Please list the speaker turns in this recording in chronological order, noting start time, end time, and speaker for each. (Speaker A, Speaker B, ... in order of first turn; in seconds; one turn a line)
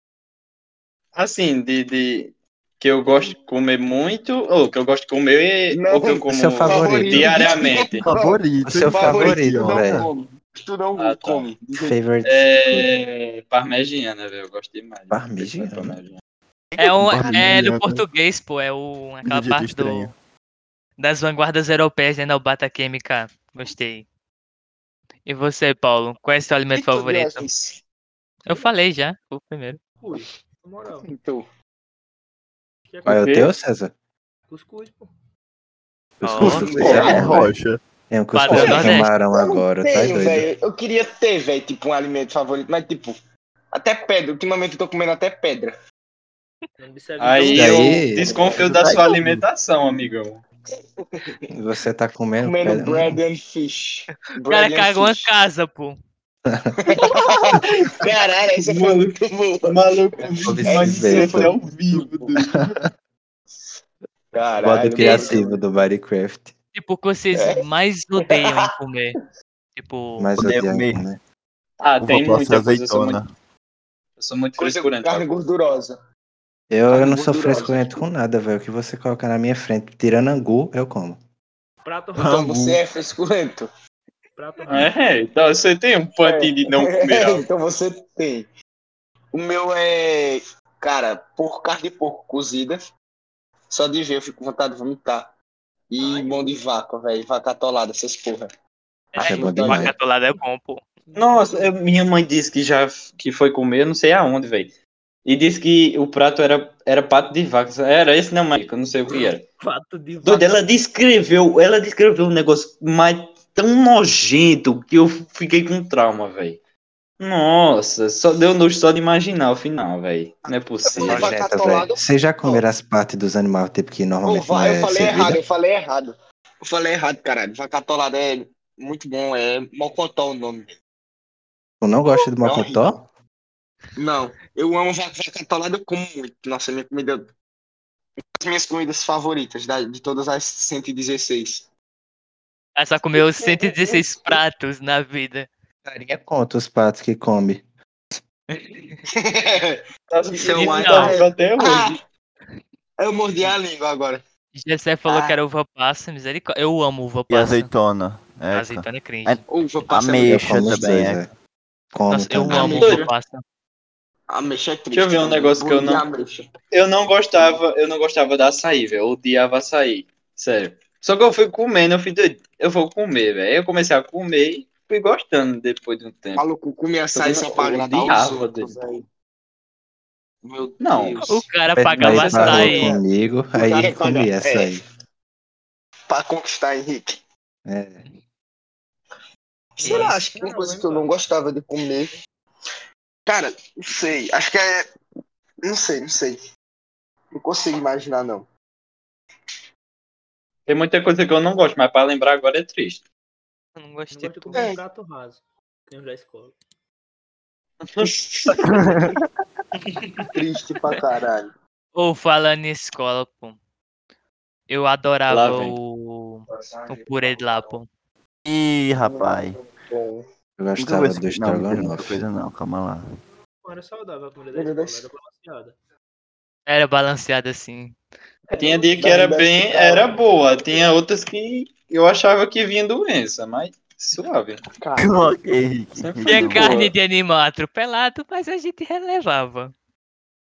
Speaker A: 1.1-8.1
Speaker B: 5.7-11.9
Speaker C: 6.3-7.5
Speaker D: 8.0-10.1
Speaker C: 8.7-10.1
Speaker A: 11.0-11.5
Speaker C: 11.8-12.9
Speaker A: 12.2-16.2
Speaker C: 15.1-16.0
Speaker D: 16.7-18.1
Speaker E: 16.8-20.1
Speaker D: 19.2-20.1
Speaker E: 21.0-24.1
Speaker E: 25.2-27.5
Speaker B: 26.7-27.8
Speaker F: 28.4-28.8
Speaker E: 28.4-29.8
Speaker F: 30.0-31.1
Speaker B: 31.0-31.4
Speaker F: 32.9-33.4
Speaker C: 33.0-33.9
Speaker A: 33.2-33.5
Speaker F: 34.5-35.1
Speaker D: 36.2-37.8
Speaker E: 36.2-37.2
Speaker C: 36.4-37.5
Speaker B: 36.4-37.5
Speaker C: 38.1-40.5
Speaker E: 38.4-39.1
Speaker A: 38.5-38.9
Speaker B: 38.5-43.1
Speaker B: 43.7-45.7
Speaker F: 46.8-48.0
Speaker A: 47.2-50.4
Speaker C: 47.5-48.4
Speaker B: 48.2-48.6
Speaker D: 48.6-49.4
Speaker B: 51.0-51.5
Speaker C: 51.5-53.2
Speaker B: 52.4-55.3
Speaker E: 54.2-56.0
Speaker C: 56.5-56.7
Speaker B: 56.8-62.4
Speaker A: 57.0-58.0
Speaker A: 58.6-62.6
Speaker C: 60.4-61.5
Speaker C: 62.5-62.8
Speaker B: 64.3-65.6
Speaker C: 64.6-66.5
Speaker E: 65.0-65.4
Speaker E: 66.8-69.2
Speaker B: 67.3-67.6
Speaker B: 68.2-68.7
Speaker E: 69.8-70.3
Speaker C: 70.2-71.2
Speaker D: 70.4-71.0
Speaker A: 71.8-73.2
Speaker D: 72.0-73.3
Speaker A: 74.2-75.3
Speaker B: 74.6-76.0
Speaker C: 76.7-81.2
Speaker B: 76.9-78.0
Speaker F: 81.8-82.4
Speaker D: 82.1-82.8
Speaker B: 82.2-83.7
Speaker F: 84.4-84.9
Speaker A: 84.7-87.4
Speaker B: 86.2-88.5
Speaker B: 89.3-92.8
Speaker B: 93.7-95.3
Speaker B: 95.9-98.5
Speaker F: 96.0-96.6
Speaker B: 99.1-99.9
Speaker E: 99.2-100.9
Speaker C: 99.2-99.9
Speaker F: 101.1-101.8
Speaker A: 101.2-104.7
Speaker A: 105.3-109.4
Speaker F: 109.1-110.7
Speaker A: 110.2-116.6
Speaker A: 117.2-121.3
Speaker B: 120.5-122.6
Speaker C: 121.0-125.4
Speaker B: 124.3-130.8
Speaker C: 131.8-133.1
Speaker B: 132.4-133.0
Speaker B: 133.9-137.3
Speaker B: 138.3-141.7
Speaker E: 142.8-145.5
Speaker B: 143.1-144.4
Speaker C: 145.8-147.6
Speaker E: 148.5-149.0
Speaker B: 149.1-149.8
Speaker A: 150.1-152.0
Speaker B: 150.3-152.0
Speaker E: 150.8-151.2
Speaker B: 153.0-154.2
Speaker E: 154.6-157.7
Speaker B: 155.1-155.4
Speaker D: 157.3-161.2
Speaker E: 158.5-159.4
Speaker B: 159.5-160.6
Speaker C: 160.3-161.3
Speaker C: 161.9-162.9
Speaker E: 162.1-163.4
Speaker B: 162.5-163.1
Speaker A: 162.5-163.1
Speaker B: 164.3-166.5
Speaker A: 164.9-166.0
Speaker A: 166.7-176.4
Speaker B: 176.3-179.1
Speaker A: 177.1-178.8
Speaker B: 180.4-181.4
Speaker A: 180.8-181.3
Speaker E: 181.2-182.9
Speaker C: 181.8-184.8
Speaker A: 181.9-182.9
Speaker B: 182.7-184.7
Speaker B: 186.1-187.2
Speaker C: 187.7-188.0
Speaker B: 189.8-192.1
Speaker E: 189.8-190.2
Speaker F: 189.8-191.2
Speaker B: 193.3-194.8
Speaker B: 195.6-196.4
Speaker B: 197.3-198.5
Speaker A: 200.7-203.1
Speaker E: 203.8-204.7
Speaker F: 204.1-206.6
Speaker A: 207.8-208.6
Speaker B: 208.0-208.6
Speaker D: 208.6-209.1
Speaker E: 209.8-210.3
Speaker B: 210.3-211.5
Speaker E: 211.9-213.6
Speaker E: 214.7-217.9
Speaker A: 215.3-215.8
Speaker B: 216.5-217.7
Speaker D: 218.4-219.6
Speaker B: 219.0-220.2
Speaker C: 220.6-222.2
Speaker D: 220.8-223.1
Speaker F: 223.6-225.8
Speaker B: 224.5-225.0
Speaker E: 226.7-228.0
Speaker F: 228.5-229.2
Speaker B: 228.5-230.2
Speaker A: 228.6-234.6
Speaker B: 234.8-235.2
Speaker D: 235.0-236.8
Speaker A: 236.0-236.9
Speaker E: 236.3-239.7